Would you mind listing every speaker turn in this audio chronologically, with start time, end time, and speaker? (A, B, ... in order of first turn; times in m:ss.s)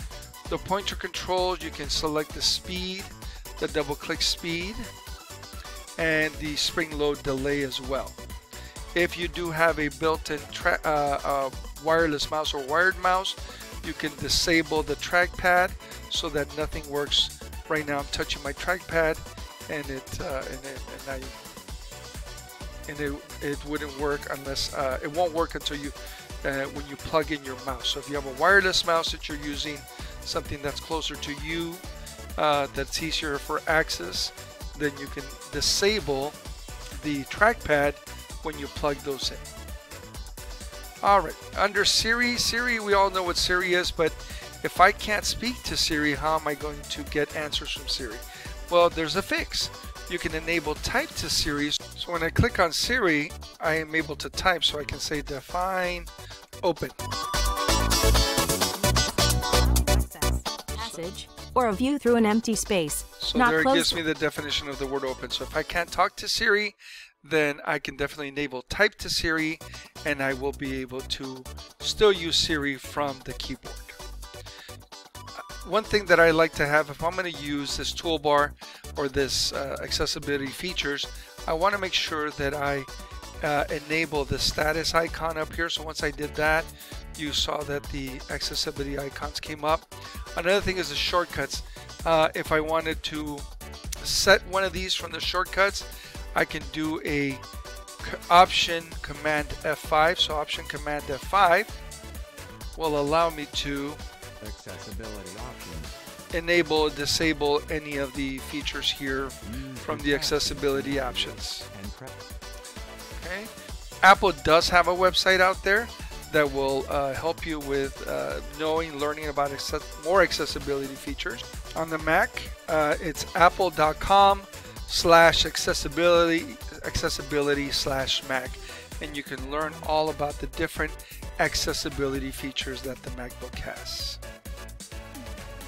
0:00.5-0:04.9 A
0:06.0-0:08.2 A
0:08.9-0:21.4 A
0:22.9-0:31.8 A
0:32.4-0:36.4 A
0:37.0-0:39.4 A
0:41.0-0:56.1 A
0:56.6-0:57.0 A
0:59.5-1:04.0 B
1:03.2-1:14.0 A
1:15.6-1:22.9 A
1:23.4-1:33.4 A
1:34.0-1:37.4 A
1:38.0-1:41.8 A
1:42.8-1:44.0 A
1:44.4-1:46.0 C
1:46.3-1:51.7 A
1:49.4-1:52.2 C
1:53.2-1:53.5 A
1:54.0-2:14.2 A